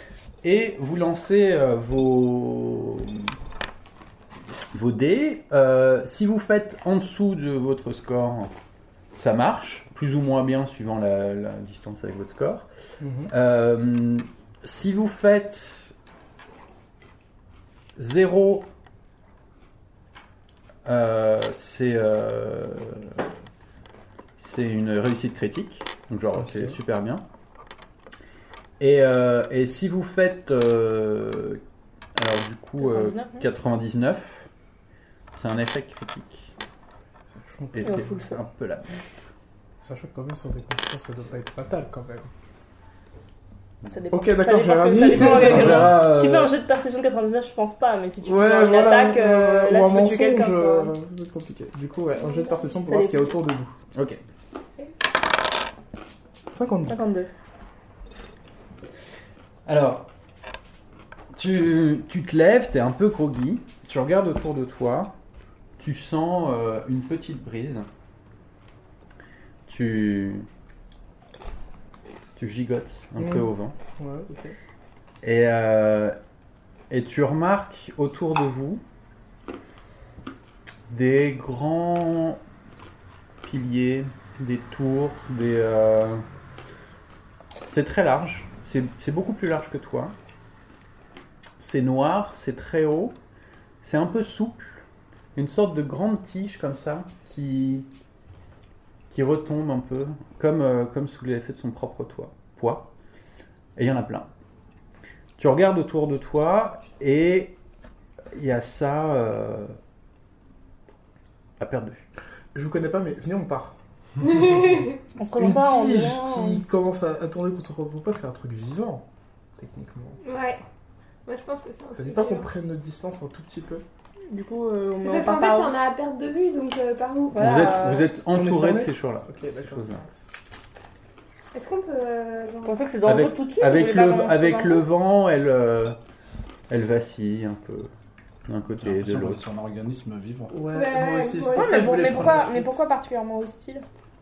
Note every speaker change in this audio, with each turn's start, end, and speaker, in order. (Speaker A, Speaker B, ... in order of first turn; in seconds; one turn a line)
Speaker A: 0.4-3.3
Speaker A: 4.7-8.5
Speaker A: 9.1-12.7
Speaker B: 13.0-13.3
Speaker A: 13.3-15.9
Speaker A: 17.9-18.7
Speaker A: 20.8-23.2
Speaker A: 24.4-27.2
Speaker B: 26.4-26.7
Speaker A: 28.8-31.6
Speaker A: 32.1-34.5
Speaker C: 32.8-33.5
Speaker A: 35.3-36.5
Speaker B: 37.3-38.1
Speaker A: 37.7-39.0
Speaker C: 37.8-38.4
Speaker B: 39.8-42.3
Speaker C: 43.8-50.9
Speaker B: 44.1-45.9
Speaker A: 45.1-46.5
Speaker D: 45.4-46.0
Speaker B: 48.2-53.7
Speaker E: 52.1-52.7
Speaker C: 52.8-53.3
Speaker A: 53.9-54.2
Speaker B: 56.5-57.0
Speaker C: 56.8-57.3
Speaker A: 59.6-60.1
Speaker A: 61.3-65.1
Speaker A: 65.8-67.8
Speaker A: 69.7-70.5
Speaker A: 72.4-73.7
Speaker B: 73.2-74.6
Speaker A: 75.2-76.2
Speaker A: 76.9-78.8
Speaker A: 80.9-82.4
Speaker A: 83.4-86.2
Speaker A: 87.7-90.1
Speaker A: 91.6-93.2
Speaker A: 93.8-94.8
Speaker A: 95.3-97.9
Speaker A: 99.1-102.9
Speaker A: 103.8-104.3
Speaker A: 105.4-107.5
Speaker A: 108.3-109.8
Speaker A: 111.6-112.0
Speaker B: 112.5-113.8
Speaker E: 114.2-115.0
Speaker B: 114.3-119.0
Speaker C: 115.2-116.6
Speaker B: 119.6-120.2
Speaker E: 120.2-120.6
Speaker E: 121.2-122.5
Speaker B: 121.9-123.8
Speaker C: 124.3-125.8
Speaker E: 125.0-128.0
Speaker C: 127.3-128.1
Speaker A: 127.3-130.0
Speaker B: 128.3-130.2
Speaker E: 131.5-132.8
Speaker C: 132.6-134.8
Speaker A: 133.1-136.0
Speaker A: 136.7-137.9
Speaker A: 138.4-139.4
Speaker D: 138.8-140.7
Speaker B: 140.5-142.8
Speaker E: 140.7-142.1
Speaker C: 141.5-143.8